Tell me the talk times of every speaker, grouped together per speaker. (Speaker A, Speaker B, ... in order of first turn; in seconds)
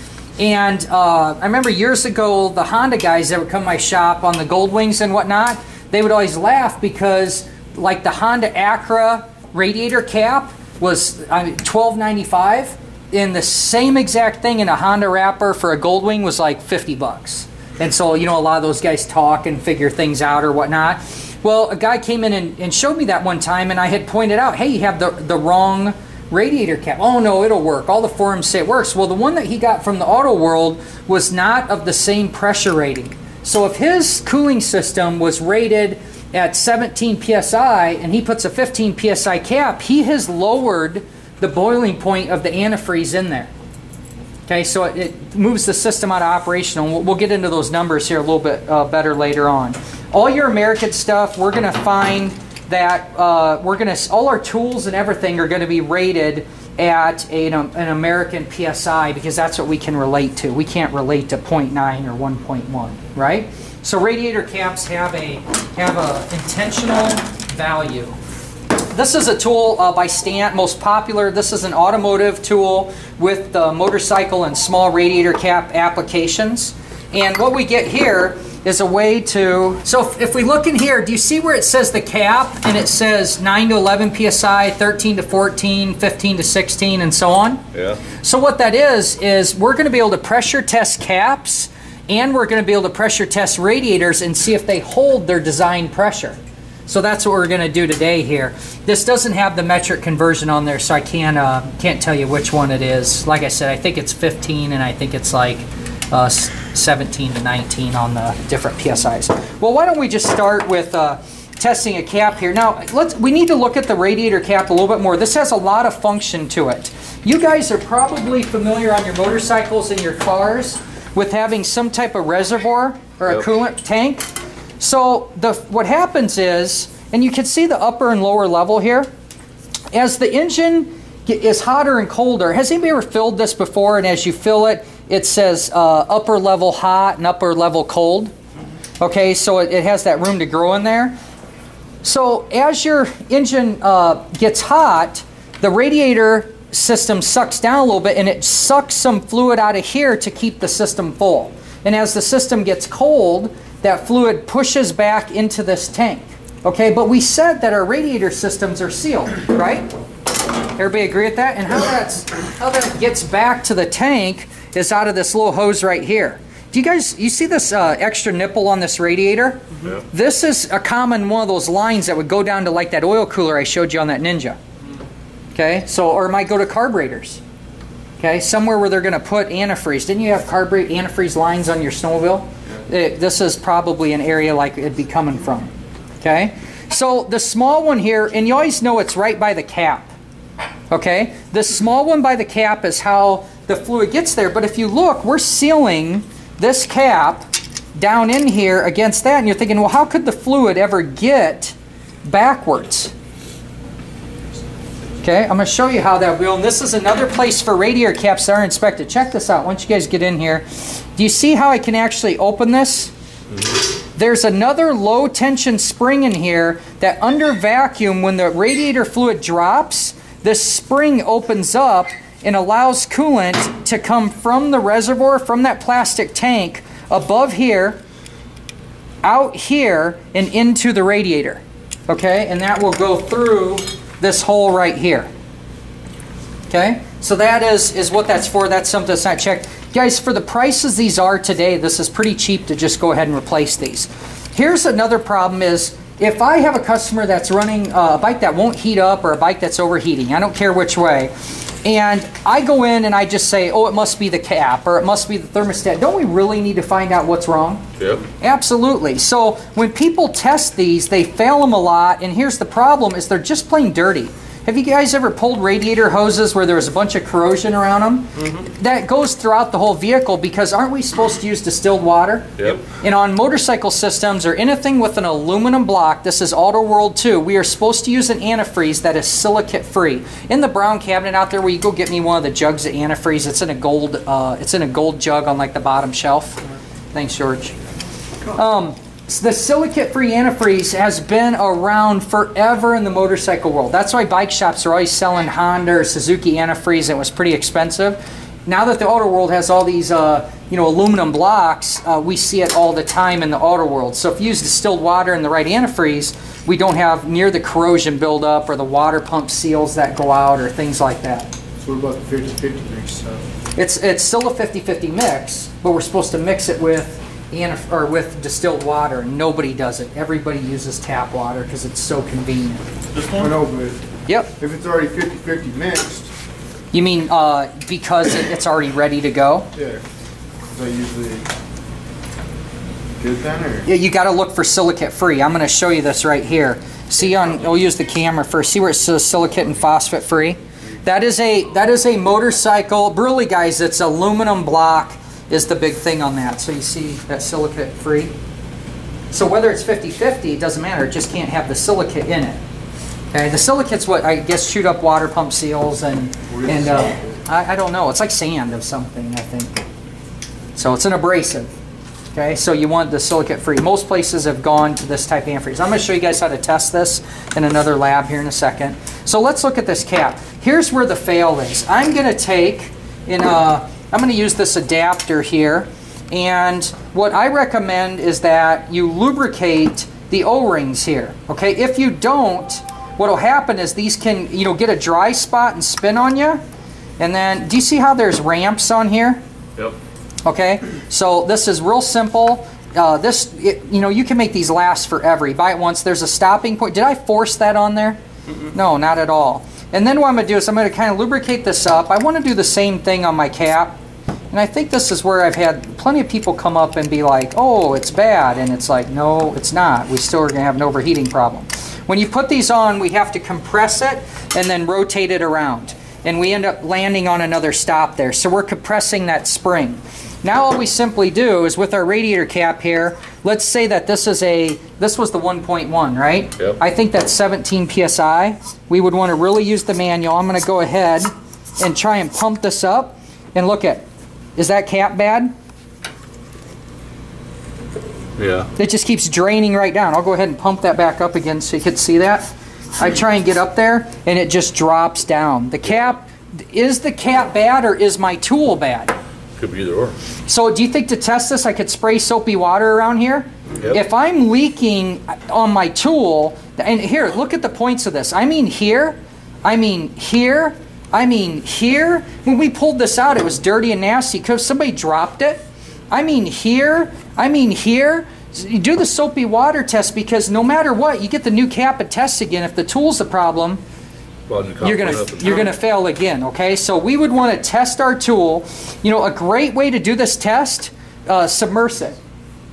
Speaker A: 0.4-43.5, 44.5-68.2, 68.9-87.6, 88.2-129.1, 129.9-138.3, 139.0-141.2, 142.0-159.9, 160.7-174.6, 175.5-177.4, 178.2-185.7, 186.2-190.1, 190.9-203.1, 205.2-213.1, 214.2-228.0, 229.2-235.3, 236.7-251.3, 251.8-257.8, 258.4-286.6, 287.1-287.7, 288.5-311.5, 313.8-322.9, 326.9-329.7, 333.9-348.3, 349.3-352.6, 353.3-359.8, 360.7-361.7, 362.3-386.6, 387.2-389.4, 390.4-398.2, 398.7-404.0, 404.5-434.1, 434.6-435.5, 438.8-449.1, 450.5-473.8, 474.8-482.2
Speaker B: 87.7-88.0, 272.6-272.8, 438.4-438.7, 449.6-450.1, 474.5-475.7
Speaker C: 311.8-313.5, 323.3-324.0, 324.6-326.3, 329.7-330.0, 330.7-331.5, 333.2-333.9, 356.5-357.4